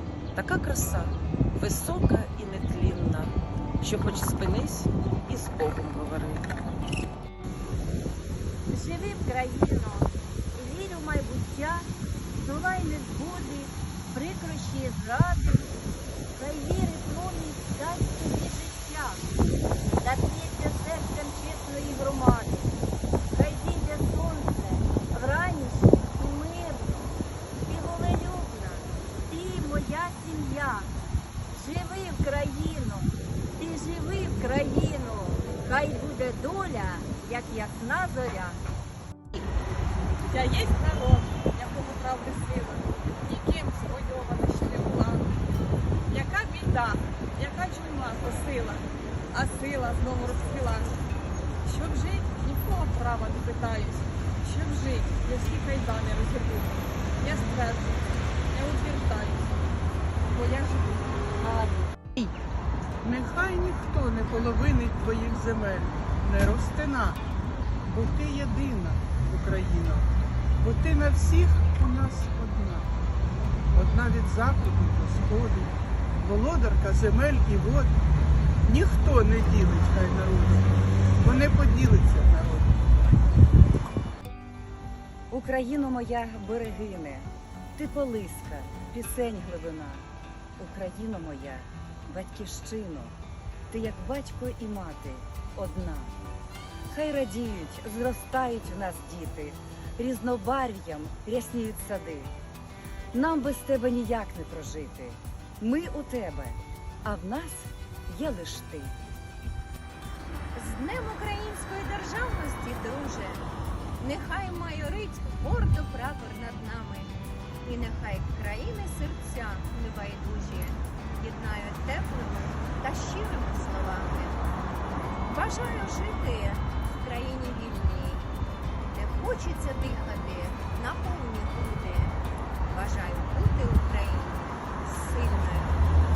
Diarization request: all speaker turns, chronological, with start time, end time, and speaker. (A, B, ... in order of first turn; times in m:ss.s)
0:00.4-0:06.4 A
0:08.7-0:11.9 B
0:12.4-0:15.7 B
0:16.4-0:19.2 B
0:20.0-0:22.7 B
0:23.3-0:27.0 B
0:27.6-0:30.9 B
0:31.5-0:38.6 B
0:40.3-0:45.4 C
0:46.1-0:51.0 C
0:51.6-0:59.6 C
1:00.3-1:02.3 C
1:03.0-1:07.2 D
1:07.9-1:10.1 D
1:10.6-1:12.9 D
1:13.7-1:17.9 D
1:18.7-1:22.8 D
1:25.3-1:30.0 E
1:30.6-1:33.2 E
1:33.7-1:36.2 E
1:36.9-1:42.3 E
1:43.1-1:49.0 E
1:50.6-1:53.4 F
1:54.0-2:04.4 F
2:05.2-2:08.3 F
2:08.9-2:12.2 F
2:12.7-2:15.8 F